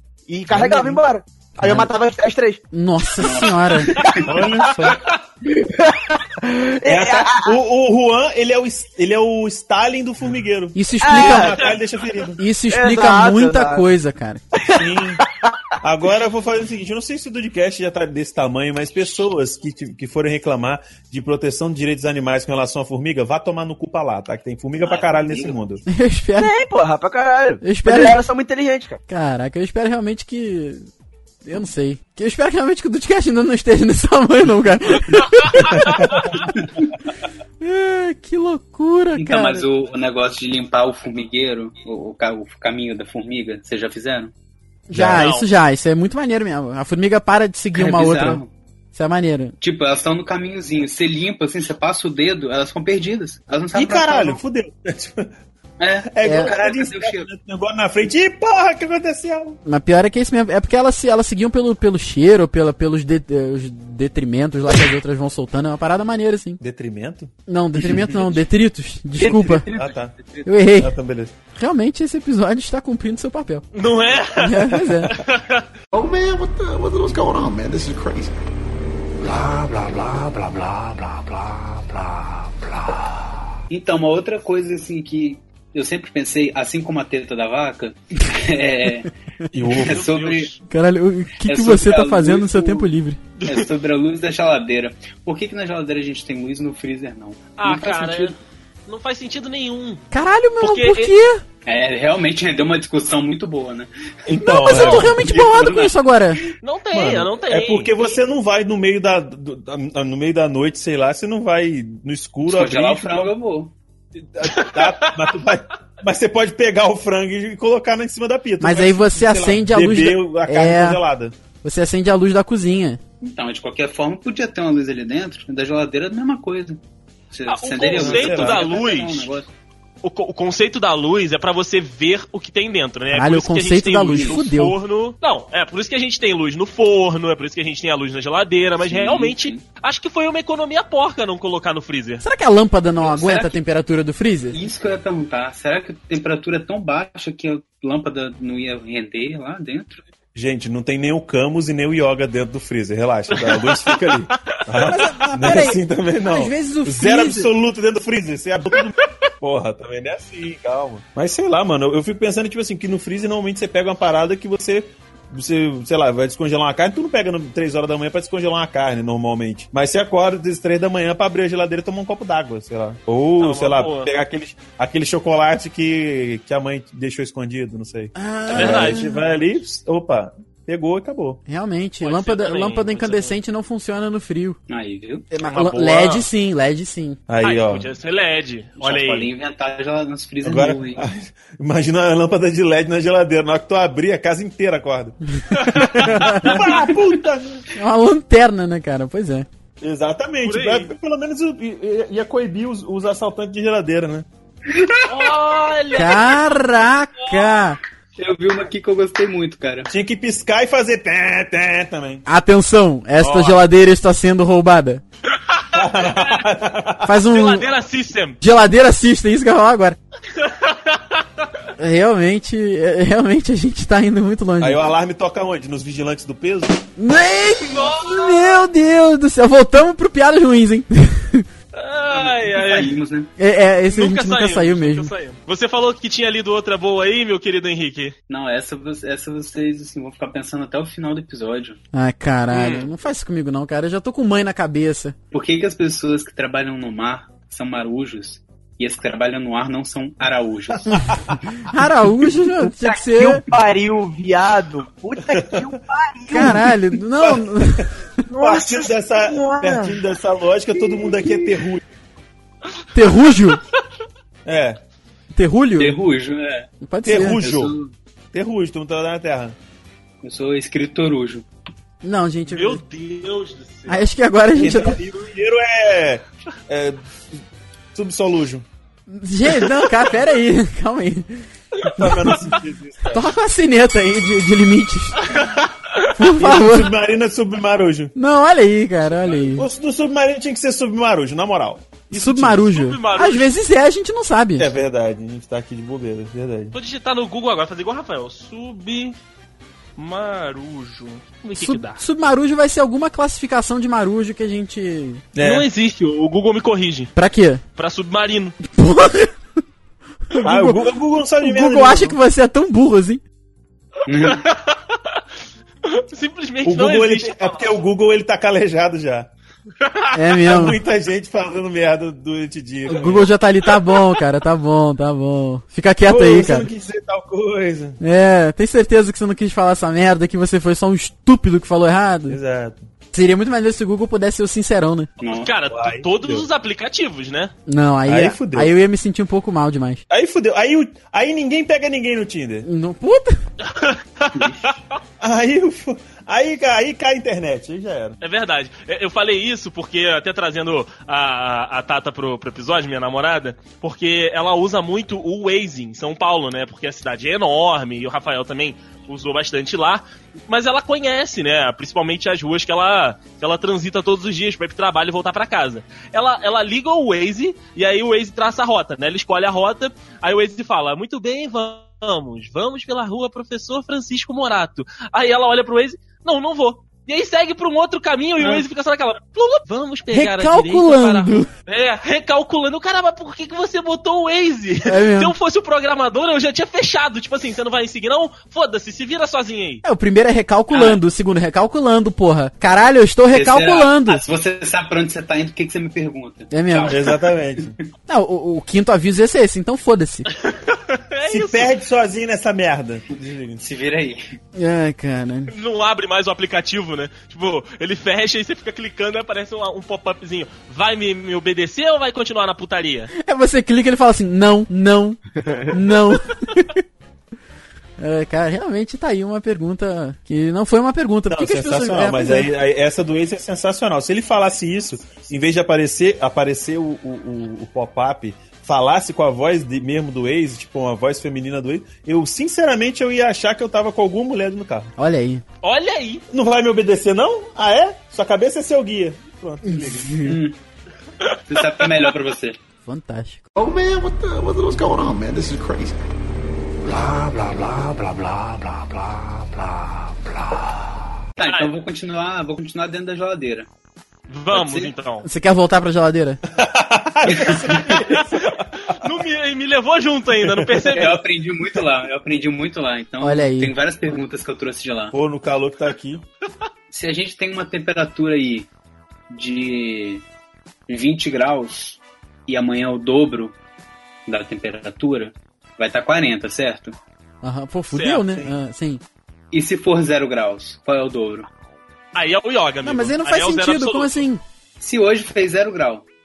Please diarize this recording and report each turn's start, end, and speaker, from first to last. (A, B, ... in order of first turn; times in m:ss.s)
0:00.3-0:02.6 A
0:00.5-0:01.0 B
0:01.6-0:01.9 C
0:02.7-0:04.0 C
0:03.2-0:04.7 D
0:04.2-0:05.0 B
0:05.4-0:07.6 A
0:06.9-0:12.4 B
0:10.8-0:11.6 C
0:11.0-0:11.7 A
0:12.4-0:14.4 C
0:12.7-0:13.8 A
0:14.5-0:15.7 A
0:14.7-0:15.2 B
0:15.8-0:25.8 B
0:24.8-0:25.6 D
0:25.9-0:26.5 C
0:26.4-0:29.0 A
0:27.6-0:28.2 C
0:29.1-0:30.9 C
0:31.4-0:35.9 C
0:35.7-0:36.4 B
0:37.6-0:39.6 C
0:39.2-0:44.3 D
0:44.9-0:48.4 C
0:44.9-0:45.2 B
0:45.1-0:45.5 E
0:47.7-0:48.5 D
0:48.9-0:49.5 C
0:49.6-0:54.4 D
0:53.7-0:55.4 B
0:55.8-0:57.3 D
0:56.1-0:59.6 B
0:56.2-0:56.5 C
0:59.6-1:06.6 C
1:06.6-1:07.3 B
1:07.5-1:09.7 C
1:09.2-1:10.4 D
1:09.7-1:10.1 B
1:10.4-1:10.9 C
1:10.7-1:11.3 B
1:11.6-1:13.6 C
1:13.7-1:15.7 E
1:14.4-1:15.2 C
1:15.9-1:18.4 F
1:19.2-1:21.2 F
1:23.7-1:29.1 D
1:29.5-1:30.0 B
1:29.7-1:30.5 D
1:29.8-1:30.6 E
1:30.7-1:33.2 C
1:31.4-1:32.9 D
1:33.4-1:33.7 E
1:33.4-1:38.4 D
1:37.6-1:38.4 E
1:38.9-1:40.0 E
1:40.1-1:41.4 C
1:40.6-1:41.1 E
1:41.7-1:43.9 D
1:44.3-1:45.2 B
1:44.4-1:46.4 C
1:44.7-1:45.9 D
1:46.6-1:48.1 E
1:46.9-1:53.3 B
1:52.4-1:53.7 D
1:54.2-2:01.3 B
1:54.5-1:55.1 E
1:58.6-2:01.0 C
2:01.6-2:03.0 C
2:03.2-2:09.5 D
2:07.5-2:09.3 E
2:07.9-2:08.7 B
2:10.0-2:22.2 E
2:13.1-2:14.8 C
2:14.1-2:14.4 D
2:18.8-2:19.6 D
2:22.2-2:24.6 C
2:23.0-2:23.6 D
2:24.5-2:30.0 D
2:30.4-3:01.4 B
2:33.3-2:34.6 E
2:34.8-2:37.5 C
2:53.4-2:54.1 E
2:58.1-2:59.1 C
2:58.5-2:59.1 E
3:01.5-3:04.6 C
3:02.0-3:03.4 E
3:04.7-3:05.3 D
3:05.3-3:07.2 C
3:05.4-3:06.3 E
3:07.3-3:07.9 B
3:07.4-3:09.3 E
3:08.8-3:11.0 D
3:10.4-3:17.6 B
3:15.6-3:16.7 E
3:15.9-3:16.5 C
3:17.7-3:19.5 C
3:19.8-3:24.3 B
3:20.4-3:20.9 E
3:24.7-3:25.1 D
3:25.1-3:26.4 E
3:25.9-3:27.8 C
3:28.2-3:29.9 D
3:29.9-3:32.2 B
3:32.3-3:35.0 C
3:33.2-3:33.6 E
3:35.4-3:36.4 E
3:35.7-3:37.1 B
3:37.0-3:37.7 C
3:37.3-3:38.4 E
3:38.4-3:40.0 C
3:40.4-3:41.2 E
3:41.8-3:44.8 C
3:44.6-3:46.8 B
3:47.0-3:51.5 C
3:47.7-3:48.7 E
3:51.7-3:53.0 E
3:52.1-3:53.3 D
3:53.4-3:55.1 C
3:53.9-3:58.1 E
3:58.3-4:01.8 D
4:01.9-4:05.1 C
4:02.5-4:02.9 E
4:05.3-4:11.0 D
4:10.9-4:11.6 B
4:11.7-4:13.4 C
4:12.8-4:16.7 A
4:15.4-4:15.6 B
4:16.3-4:17.9 C
4:17.2-4:21.8 B
4:18.3-4:20.0 A
4:21.0-4:21.3 A
4:22.9-4:23.6 C
4:24.4-4:24.8 B
4:25.3-4:26.0 C
4:25.8-4:26.7 D
4:26.8-4:27.4 C
4:27.0-4:27.7 B
4:27.4-4:27.9 D
4:28.3-4:29.6 B
4:30.2-4:31.4 D
4:32.0-4:32.8 C
4:32.5-4:34.1 E
4:33.9-4:35.0 C
4:34.6-4:37.4 B
4:38.0-4:38.7 B
4:39.1-4:42.4 C
4:41.8-4:42.4 E
4:42.0-4:43.3 B
4:43.1-4:45.2 C
4:45.2-4:46.1 E
4:46.2-4:46.9 C
4:46.4-4:48.1 B
4:48.1-4:49.7 C
4:49.5-4:52.0 B
4:52.1-4:54.7 C
4:52.1-4:53.5 E
4:54.6-4:56.7 B
4:56.7-4:59.2 E
5:00.0-5:02.0 E
5:01.6-5:05.2 C
5:05.4-5:05.7 B
5:05.4-5:07.1 E
5:07.1-5:07.6 C
5:07.8-5:08.6 E
5:08.7-5:09.3 C
5:10.3-5:13.2 C
5:10.4-5:12.2 B
5:14.1-5:14.4 D
5:14.2-5:15.2 E
5:15.8-5:17.7 E
5:16.6-5:19.3 B
5:19.8-5:20.1 E
5:20.1-5:20.8 C
5:20.4-5:23.3 B
5:22.9-5:26.7 C
5:26.1-5:28.0 B
5:28.0-5:32.4 C
5:32.3-5:32.8 B
5:33.1-5:35.1 C
5:35.2-5:35.5 D
5:35.3-5:37.5 E
5:35.7-5:36.5 B
5:37.7-5:40.0 C
5:38.1-5:38.7 B
5:40.1-5:42.7 B
5:42.6-5:43.4 C
5:43.6-5:45.0 E
5:44.4-5:44.7 D
5:45.2-5:48.2 B
5:48.2-6:29.8 E
6:20.1-6:21.5 C
6:24.9-6:25.3 C
6:29.8-6:34.2 C
6:33.3-6:37.4 D
6:36.5-6:37.0 C
6:36.9-6:37.7 B
6:38.1-6:40.3 C
6:40.4-6:41.7 E
6:41.3-6:43.6 B
6:43.6-6:44.2 D
6:44.6-6:45.5 C
6:45.5-6:53.1 E
6:53.2-6:56.8 C
6:55.4-6:55.7 A
6:58.0-7:02.5 C
7:01.3-7:14.9 B
7:15.0-7:15.4 C
7:15.6-7:16.2 E
7:16.3-7:20.2 B
7:19.6-7:20.4 C
7:20.2-7:20.6 D
7:21.2-7:21.9 E
7:21.5-7:22.6 D
7:22.8-7:23.4 C
7:23.6-7:26.0 F
7:31.4-7:33.7 D
7:31.4-7:31.7 E
7:34.3-7:35.3 E
7:34.5-7:34.9 D
7:35.2-7:36.4 C
7:36.5-7:39.0 B
7:37.3-7:37.8 D
7:37.9-7:38.2 E
7:38.8-7:41.2 E
7:40.4-7:40.9 B
7:40.9-7:45.1 D
7:43.2-7:43.7 C
7:45.1-7:46.2 B
7:46.9-7:48.7 D
7:49.3-7:50.2 D
7:50.9-7:53.6 D
7:54.3-7:57.0 D
7:57.4-7:59.0 C
7:57.9-7:58.5 E
7:59.5-8:01.5 D
8:02.1-8:04.2 E
8:02.8-8:04.4 C
8:04.8-8:06.1 D